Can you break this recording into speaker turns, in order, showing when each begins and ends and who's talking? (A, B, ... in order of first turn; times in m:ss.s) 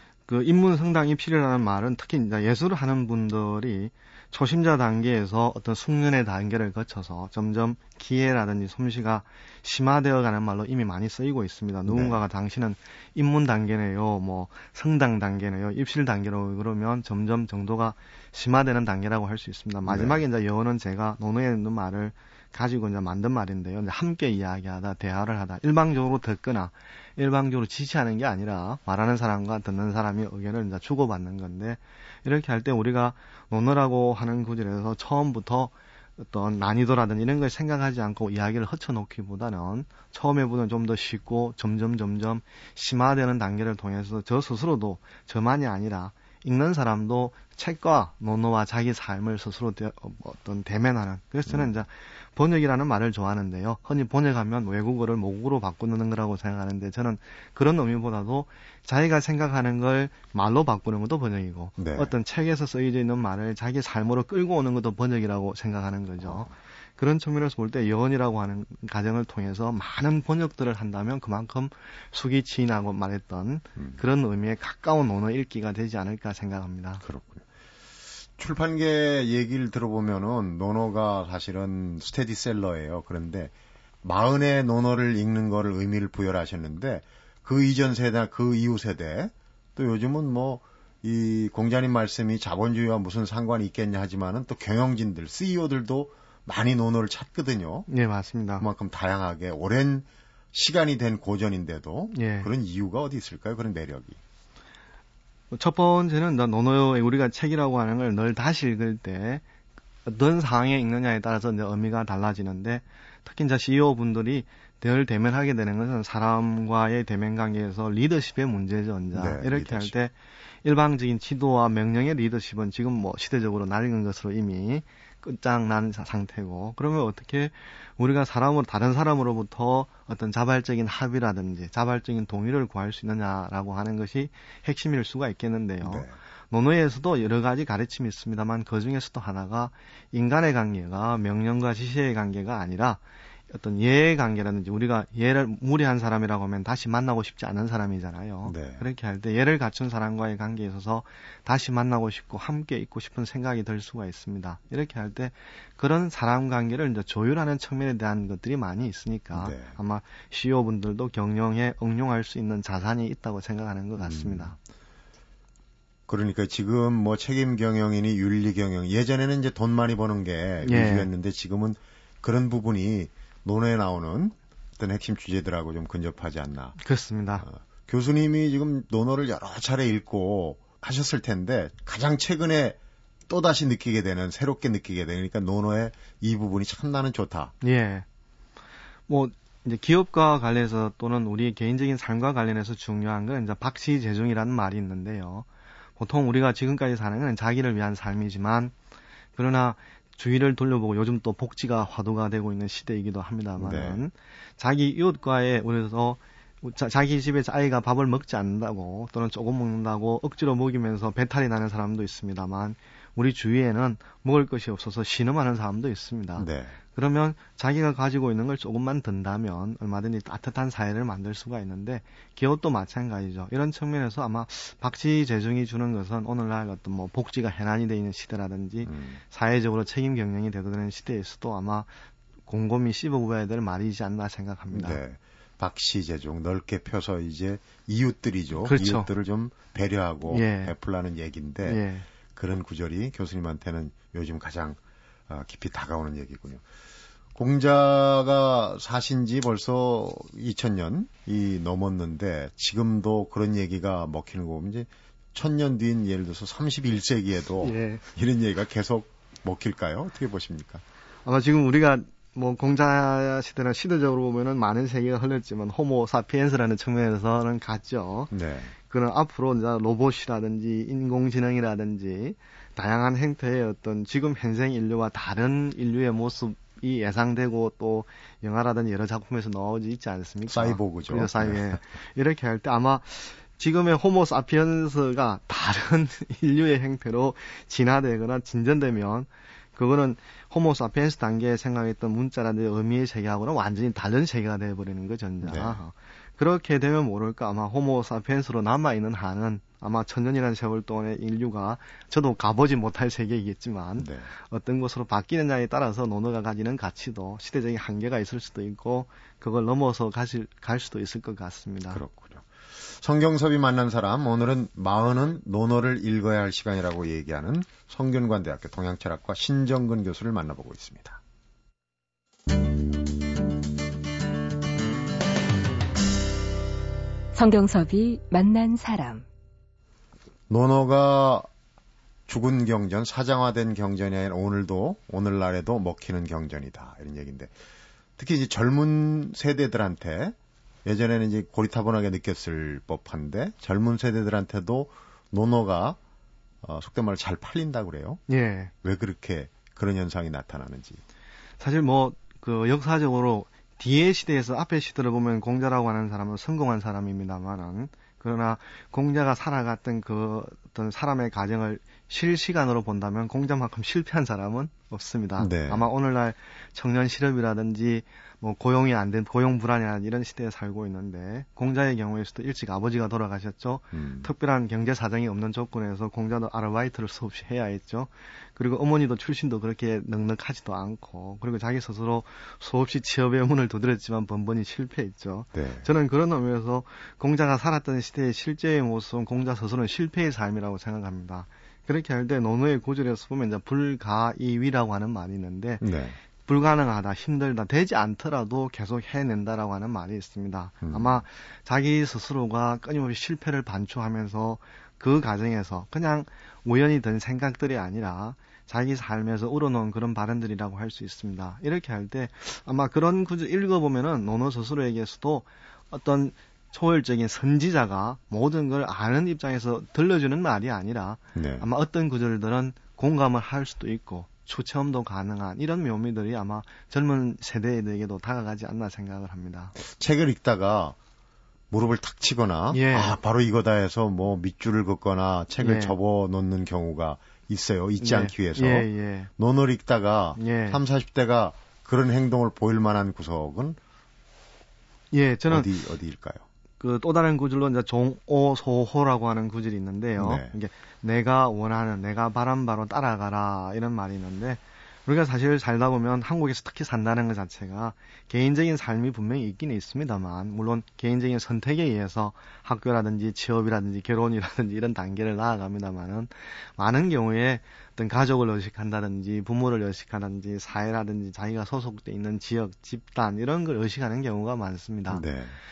0:00.3-1:17.0 A
0:11.9-0:12.2 B
0:19.9-0:20.2 B
1:01.8-1:02.1 B
1:06.2-1:06.5 B
1:17.0-1:17.4 B
1:18.4-1:37.9 B
1:37.9-1:38.6 A
1:38.6-1:44.2 B
1:42.1-1:42.5 A
1:45.5-1:49.4 A
1:50.1-2:44.6 A
1:59.1-1:59.9 B
2:15.8-2:16.2 B
2:28.5-2:28.8 B
2:39.3-2:39.7 B
2:44.0-2:44.6 B
2:46.1-2:56.8 B
2:50.6-2:51.1 A
2:56.8-2:57.5 A
2:57.4-3:02.8 B
3:03.3-3:07.5 B
3:07.6-3:08.0 A
3:09.1-3:15.5 A
3:16.0-3:18.7 A
3:19.4-3:51.9 A
3:23.6-3:24.0 B
3:36.4-3:36.8 B
3:48.8-3:49.2 B
3:52.5-3:55.0 A
3:54.7-4:06.6 B
3:58.6-3:59.1 A
4:00.3-4:00.7 A
4:01.6-4:02.1 A
4:07.4-4:20.8 B
4:17.6-4:18.0 A
4:21.2-4:28.3 A
4:28.3-4:28.7 B
4:28.8-5:12.0 A
4:40.5-4:41.8 B
4:55.4-4:55.8 B
5:04.0-5:04.3 B
5:11.9-5:21.2 B
5:27.3-5:29.3 C
5:30.5-5:31.5 B
5:32.3-5:37.5 B
5:38.2-5:46.0 B
5:46.6-5:48.2 B
5:48.3-5:48.7 A
5:48.8-5:51.0 B
5:51.6-6:35.8 A
6:05.4-6:05.8 B
6:13.9-6:14.3 B
6:25.5-6:25.9 B
6:35.8-6:36.2 B
6:36.4-7:09.8 A
6:40.8-6:41.2 B
7:01.3-7:01.6 B
7:09.8-7:11.0 B
7:11.7-7:23.8 B
7:12.7-7:13.2 A
7:15.6-7:16.0 A
7:18.0-7:19.3 A
7:20.4-7:20.8 A
7:25.1-7:25.7 A
7:25.5-7:26.4 B
7:26.8-7:55.2 A
7:30.2-7:30.5 B
7:55.1-7:55.6 B